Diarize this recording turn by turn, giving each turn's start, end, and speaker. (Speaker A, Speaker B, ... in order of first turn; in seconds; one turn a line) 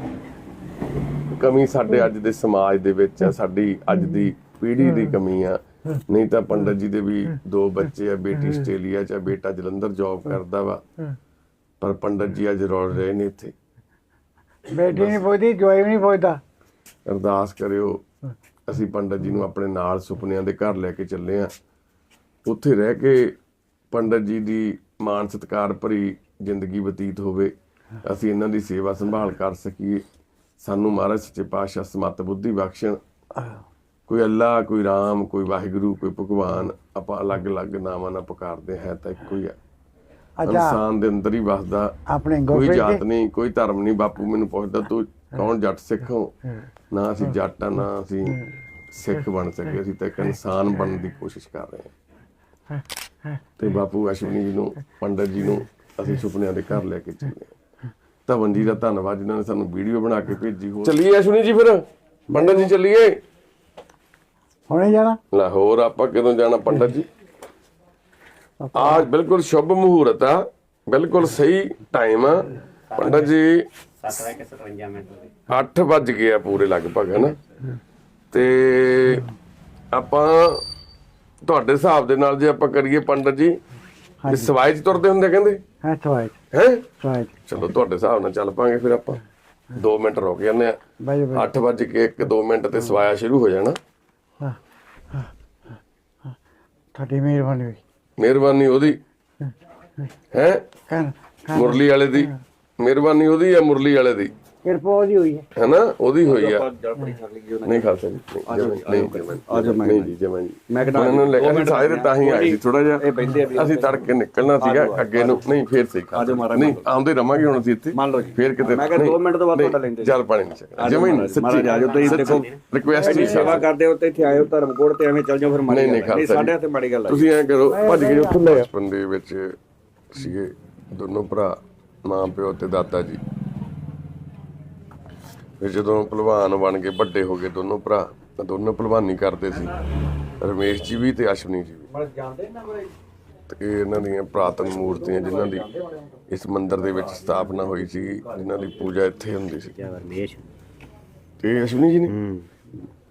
Speaker A: 1.3-10.8
Speaker A: 11.8-13.5
Speaker B: 14.7-16.4
Speaker A: 14.9-15.2
Speaker A: 17.1-18.0
Speaker A: 18.7-21.5
Speaker A: 22.5-23.4
Speaker A: 23.9-30.1
Speaker A: 30.6-33.0
Speaker B: 33.4-33.6
Speaker A: 34.1-39.6
Speaker B: 40.4-40.8
Speaker A: 40.5-42.0
Speaker B: 42.1-43.0
Speaker A: 42.5-46.3
Speaker A: 46.9-51.9
Speaker A: 53.6-57.5
Speaker A: 58.3-63.2
Speaker B: 64.7-65.2
Speaker A: 65.3-67.1
Speaker B: 68.6-69.1
Speaker A: 68.7-73.7
Speaker C: 72.9-73.3
Speaker C: 74.0-75.3
Speaker A: 75.5-77.4
Speaker A: 78.3-79.3
Speaker A: 79.9-80.6
Speaker A: 81.4-83.6
Speaker B: 84.2-84.5
Speaker A: 84.3-85.6
Speaker B: 85.8-86.4
Speaker A: 86.5-86.9
Speaker B: 87.0-87.4
Speaker A: 87.5-89.2
Speaker A: 89.7-90.8
Speaker B: 91.0-91.5
Speaker A: 91.3-93.8
Speaker B: 96.9-97.8
Speaker A: 98.2-99.0
Speaker A: 100.3-100.6
Speaker B: 100.9-102.3
Speaker A: 101.5-104.3
Speaker B: 104.6-105.5
Speaker A: 105.5-106.7
Speaker D: 106.2-108.0
Speaker A: 107.7-123.7
Speaker D: 108.5-110.2
Speaker D: 110.7-115.4
Speaker D: 116.1-116.8
Speaker D: 117.9-120.2
Speaker D: 120.8-127.3
Speaker C: 121.6-122.6
Speaker B: 123.0-123.6
Speaker A: 125.7-126.5
Speaker A: 127.1-129.6
Speaker B: 127.7-128.7
Speaker A: 130.1-133.2
Speaker A: 135.6-139.7
Speaker A: 140.4-141.9
Speaker D: 141.9-142.9
Speaker A: 143.5-145.7
Speaker D: 144.5-146.1
Speaker A: 146.3-149.7
Speaker D: 146.9-147.4
Speaker D: 148.2-148.8
Speaker C: 149.7-150.5
Speaker A: 151.4-152.1
Speaker C: 152.1-152.5